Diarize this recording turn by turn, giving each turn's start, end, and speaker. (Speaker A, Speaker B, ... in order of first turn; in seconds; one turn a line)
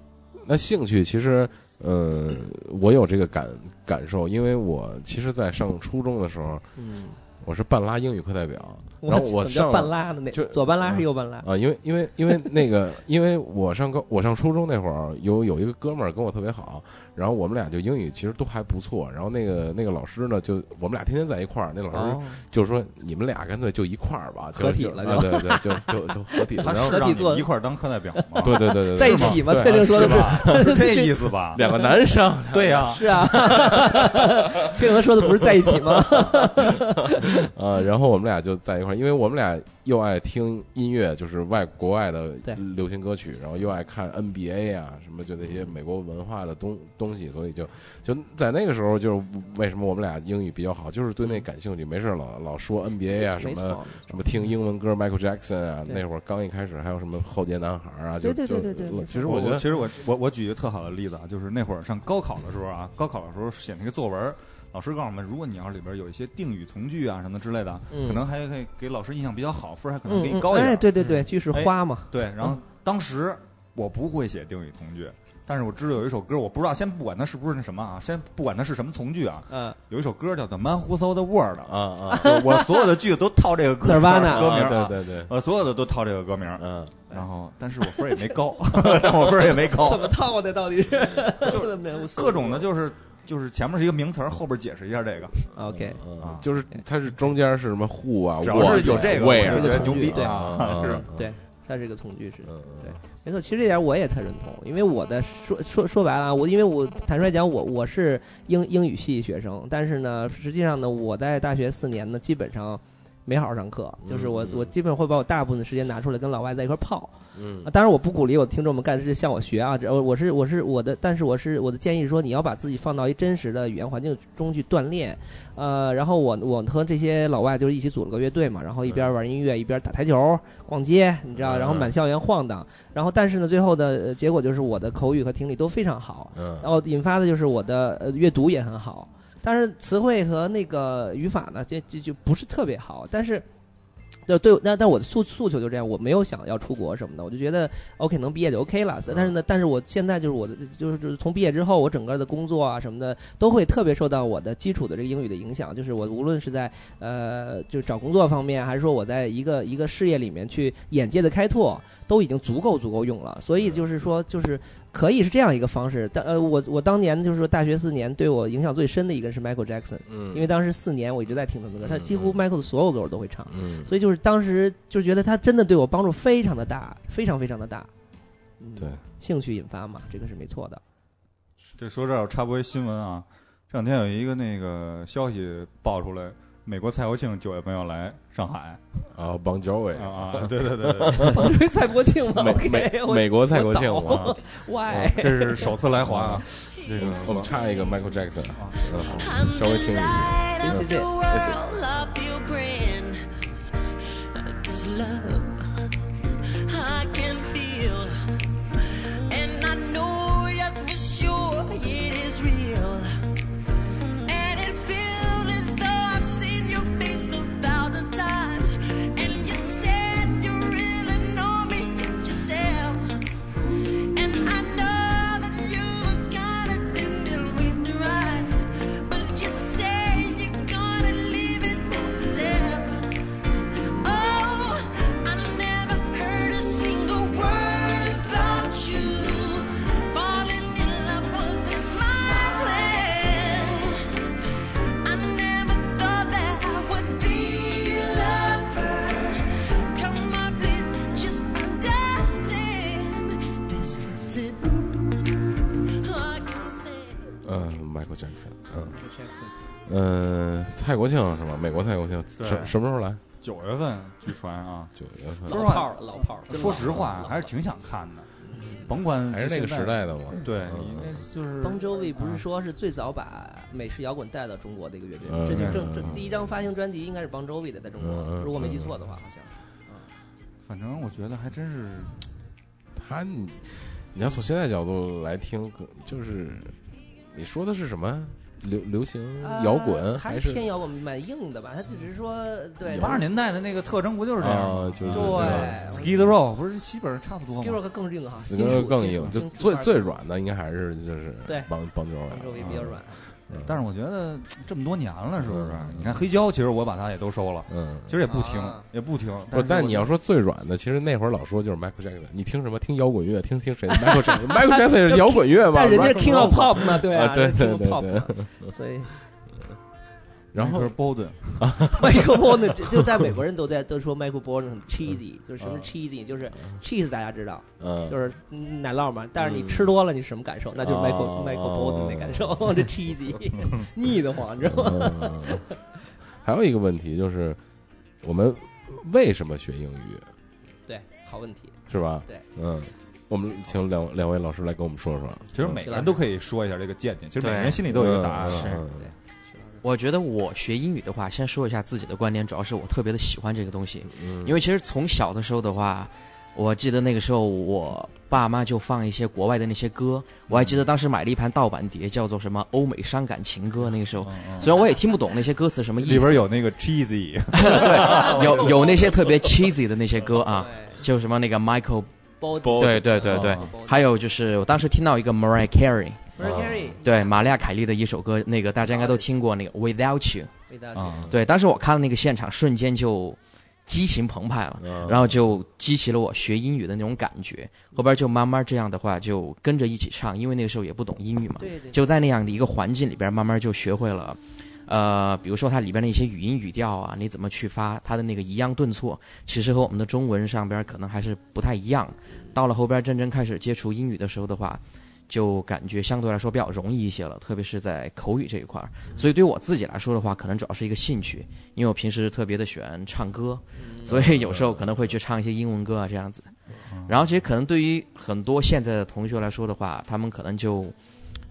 Speaker A: 0.3-6.7
Speaker B: 6.8-7.2
Speaker A: 7.4-27.0
Speaker B: 9.0-11.5
Speaker B: 21.9-22.4
Speaker B: 24.6-27.5
Speaker C: 26.6-31.6
Speaker B: 28.2-31.9
Speaker A: 28.4-30.9
Speaker A: 31.5-34.8
Speaker C: 32.5-33.5
Speaker B: 32.9-37.3
Speaker A: 35.4-59.6
Speaker B: 53.1-54.2
Speaker B: 58.2-59.5
Speaker C: 59.2-90.1
Speaker B: 67.9-68.2
Speaker B: 70.1-72.1
Speaker B: 79.5-79.8
Speaker A: 81.6-82.3
Speaker B: 82.1-82.7
Speaker B: 83.8-84.6
Speaker A: 84.3-85.3
Speaker A: 86.6-86.9
Speaker B: 88.7-92.7
Speaker C: 91.3-95.5
Speaker B: 95.5-96.0
Speaker A: 95.5-101.3
Speaker C: 96.2-96.5
Speaker C: 98.4-101.0
Speaker B: 98.8-143.4
Speaker A: 102.4-103.0
Speaker A: 114.0-114.7
Speaker A: 117.3-117.7
Speaker A: 128.8-129.1
Speaker A: 131.3-131.9
Speaker A: 136.3-136.7
Speaker B: 144.3-177.9
Speaker A: 163.6-163.9
Speaker A: 170.1-170.5
Speaker A: 171.8-172.4
Speaker A: 173.5-173.9
Speaker B: 178.6-180.8
Speaker C: 181.8-188.8
Speaker A: 189.1-191.5
Speaker C: 189.9-191.5
Speaker B: 191.3-195.7
Speaker A: 192.3-194.4
Speaker C: 194.1-194.4
Speaker C: 194.9-197.5
Speaker A: 196.0-196.4
Speaker A: 197.0-201.6
Speaker C: 198.5-199.3
Speaker D: 199.1-203.3
Speaker B: 200.6-201.1
Speaker D: 204.3-208.2
Speaker D: 208.7-213.1
Speaker D: 214.2-223.2
Speaker D: 224.1-233.1
Speaker D: 234.0-244.1
Speaker D: 245.0-257.3
Speaker A: 257.4-259.0
Speaker B: 258.9-259.6
Speaker A: 259.9-263.2
Speaker C: 262.4-262.8
Speaker C: 263.4-268.3
Speaker A: 265.0-265.7
Speaker B: 265.5-267.5
Speaker B: 268.5-268.9
Speaker C: 268.9-272.4
Speaker A: 269.3-271.2
Speaker B: 271.6-280.1
Speaker A: 275.2-276.4
Speaker C: 275.5-275.9
Speaker A: 278.0-278.9
Speaker C: 280.7-282.2
Speaker A: 282.9-286.8
Speaker A: 287.3-290.7
Speaker B: 289.4-293.2
Speaker A: 292.9-293.2
Speaker C: 292.9-297.8
Speaker A: 294.4-296.3
Speaker B: 295.1-296.1
Speaker B: 297.5-300.2
Speaker A: 298.4-303.8
Speaker B: 301.4-301.7
Speaker B: 302.3-303.2
Speaker C: 303.5-310.1
Speaker A: 305.4-306.2
Speaker A: 307.7-308.2
Speaker B: 308.3-308.8
Speaker A: 309.5-318.7
Speaker B: 314.0-319.1
Speaker A: 320.5-320.9
Speaker C: 320.6-321.7
Speaker A: 321.6-322.9
Speaker B: 321.9-335.7
Speaker C: 325.6-325.9
Speaker A: 327.8-328.2
Speaker A: 329.4-329.9
Speaker A: 330.8-333.3
Speaker A: 334.6-335.7
Speaker A: 336.4-337.6
Speaker A: 338.2-340.3
Speaker B: 340.9-341.8
Speaker A: 341.9-345.8
Speaker C: 345.5-348.7
Speaker B: 345.8-346.2
Speaker E: 347.4-347.9
Speaker A: 347.9-349.1
Speaker E: 348.4-348.8
Speaker B: 348.9-349.8
Speaker E: 349.8-366.4
Speaker A: 354.1-354.6
Speaker C: 364.2-364.7
Speaker C: 366.0-368.8
Speaker E: 367.5-372.1
Speaker B: 368.0-369.1
Speaker B: 370.5-371.0
Speaker B: 372.4-374.1
Speaker A: 372.6-373.2
Speaker E: 372.7-376.3
Speaker C: 373.3-373.7
Speaker B: 376.4-377.4
Speaker A: 376.4-376.9
Speaker E: 377.0-380.5
Speaker B: 378.9-379.3
Speaker B: 380.7-381.3
Speaker C: 380.9-381.3
Speaker E: 381.3-416.5
Speaker A: 384.8-385.3
Speaker B: 391.6-392.0
Speaker B: 413.8-414.1
Speaker A: 414.1-415.1
Speaker C: 416.9-417.2
Speaker E: 417.0-420.9